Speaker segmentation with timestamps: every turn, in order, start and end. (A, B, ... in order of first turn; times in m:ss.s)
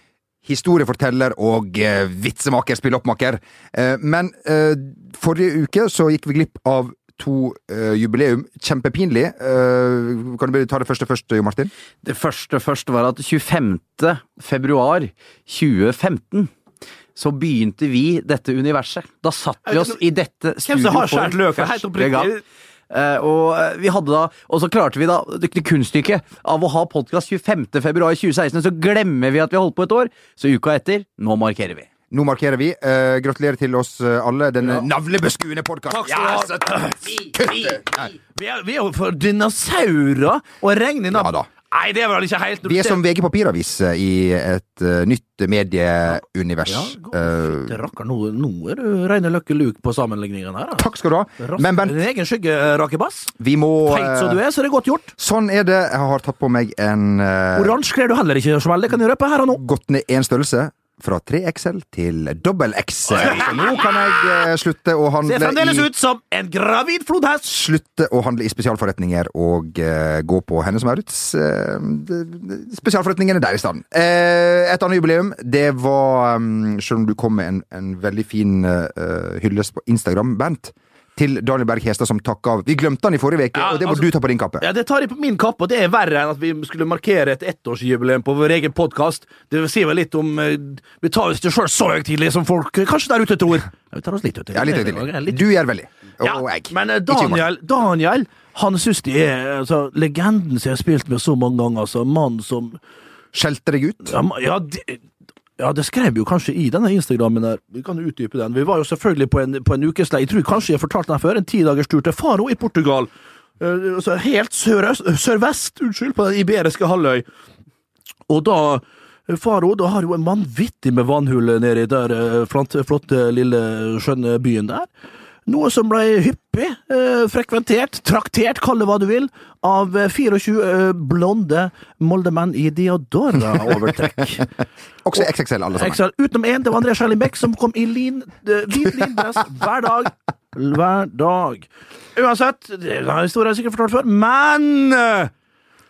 0:00.4-0:11.7 A
0:12.0-0:16.5 B
0:17.1-0:22.3 B
0:19.7-0:20.0 C
0:20.6-0:22.4 C
0:22.9-0:31.9 B
0:32.1-0:38.1 A
0:35.9-0:37.8 C
0:38.3-0:43.0 C
0:41.1-0:41.5 A
0:42.6-0:47.8 A
0:46.7-0:53.3 C
0:50.8-0:52.0 A
0:53.4-0:54.4 A
0:53.9-0:55.1 C
0:55.2-0:57.8 A
0:57.5-0:59.6 C
0:59.5-1:05.9 A
1:03.1-1:03.7 C
1:05.2-1:07.5 C
1:07.4-1:24.6 A
1:23.5-1:35.5 C
1:34.5-1:37.4 A
1:36.2-1:42.8 C
1:43.3-1:44.2 A
1:44.0-1:45.0 C
1:45.6-1:57.2 C
1:58.3-2:04.9 C
2:05.5-2:14.5 C
2:15.0-2:16.0 A
2:15.1-2:25.3 C